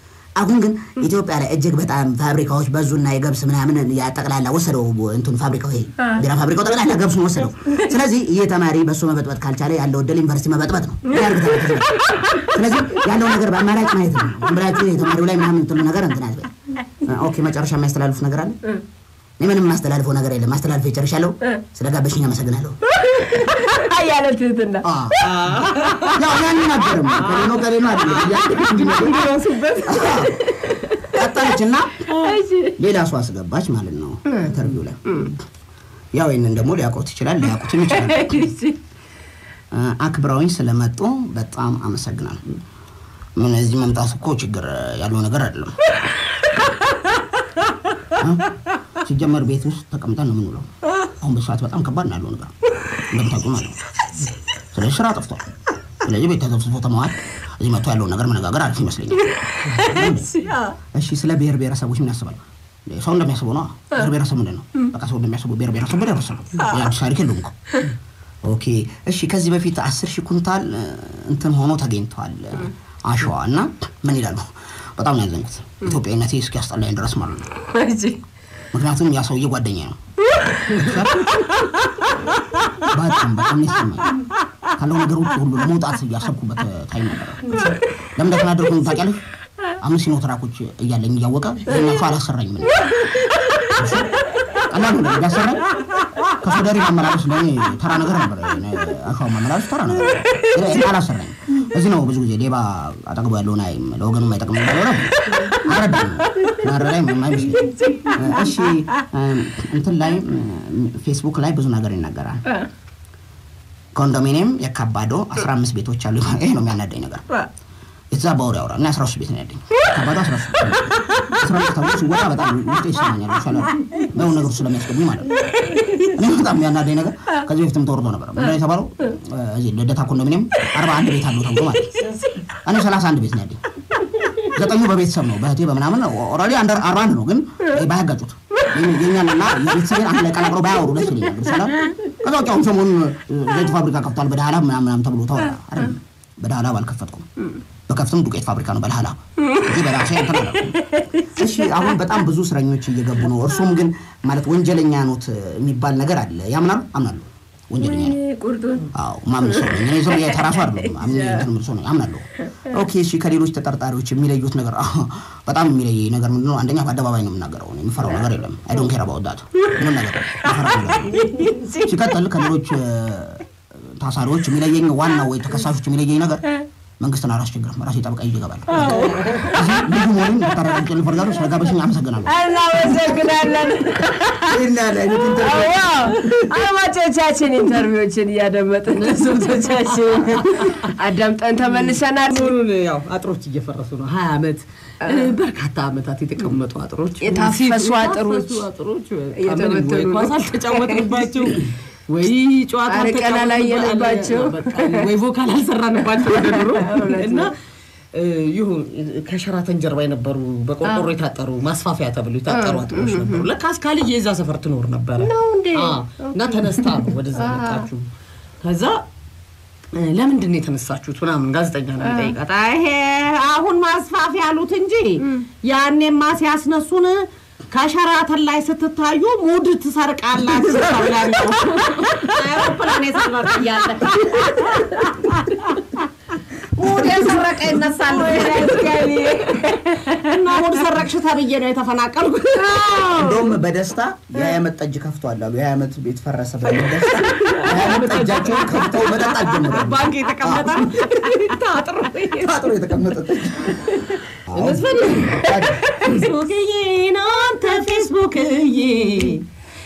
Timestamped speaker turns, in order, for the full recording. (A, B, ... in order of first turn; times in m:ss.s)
0:00.4-0:18.6 A
0:06.0-0:06.2 B
0:07.7-0:07.9 B
0:11.1-0:12.5 B
0:19.4-0:22.8 A
0:22.9-0:24.8 B
0:24.8-0:25.4 A
0:25.2-0:26.3 C
0:25.4-0:26.1 B
0:26.1-0:29.2 A
0:27.1-0:30.3 C
0:28.2-0:29.3 B
0:29.8-0:30.4 A
0:30.0-0:31.4 B
0:31.1-0:32.1 A
0:32.1-0:32.4 C
0:32.1-0:32.8 B
0:32.8-0:35.3 A
0:35.0-0:35.3 B
0:36.1-0:38.5 A
0:37.9-0:38.8 B
0:39.7-0:42.4 A
0:43.4-0:45.8 A
0:48.1-0:52.5 A
0:53.1-0:53.8 A
0:54.7-0:55.4 A
0:56.0-1:00.3 A
0:59.5-1:00.8 B
1:00.9-1:07.5 A
1:06.6-1:06.9 B
1:08.4-1:17.5 A
1:17.6-1:18.2 B
1:18.7-1:20.0 A
1:20.3-1:20.7 B
1:20.7-1:21.4 A
1:21.2-1:21.9 B
1:22.9-1:24.1 A
1:24.7-1:29.2 A
1:27.5-1:27.8 C
1:29.8-1:32.9 A
1:32.8-1:33.8 B
1:33.7-1:35.8 A
1:34.4-1:34.6 B
1:36.4-1:52.4 A
1:40.2-1:40.6 B
1:45.3-1:45.7 B
1:46.2-1:46.7 B
1:47.5-1:49.0 B
1:53.9-1:57.2 A
1:58.1-2:11.9 A
2:00.8-2:01.4 B
2:03.8-2:04.1 B
2:05.4-2:06.2 B
2:11.6-2:12.1 B
2:12.0-2:12.4 C
2:12.6-2:13.6 A
2:14.0-2:14.5 B
2:14.5-2:27.2 A
2:27.9-2:38.2 A
2:29.4-2:31.8 B
2:37.8-2:38.9 B
2:38.9-2:51.2 A
2:39.4-2:41.5 B
2:50.4-2:52.1 B
2:51.8-2:56.4 A
2:57.0-3:03.2 A
2:58.7-2:59.9 B
3:02.2-3:12.5 B
3:04.4-3:06.5 A
3:08.9-3:10.9 C
3:11.6-3:27.5 C
3:15.0-3:15.3 B
3:17.2-3:18.6 B
3:19.3-3:21.5 B
3:22.9-3:25.1 B
3:26.1-3:27.5 B
3:28.1-3:38.1 C
3:30.8-3:31.1 B
3:32.5-3:33.5 B
3:35.2-3:37.9 B
3:38.6-3:39.0 C
3:39.9-3:55.9 C
3:42.0-3:42.4 B
3:45.2-3:45.4 B
3:50.6-3:51.4 A
3:51.7-3:52.4 B
3:54.1-3:55.1 B
3:56.7-3:59.4 C
3:56.9-3:57.3 A
3:57.2-4:00.7 B
4:00.1-4:03.4 C
4:03.2-4:10.9 A
4:06.8-4:08.9 B
4:07.4-4:12.7 C
4:12.4-4:13.8 A
4:13.7-4:14.2 B
4:14.5-4:15.9 A
4:14.5-4:19.4 C
4:15.1-4:16.2 B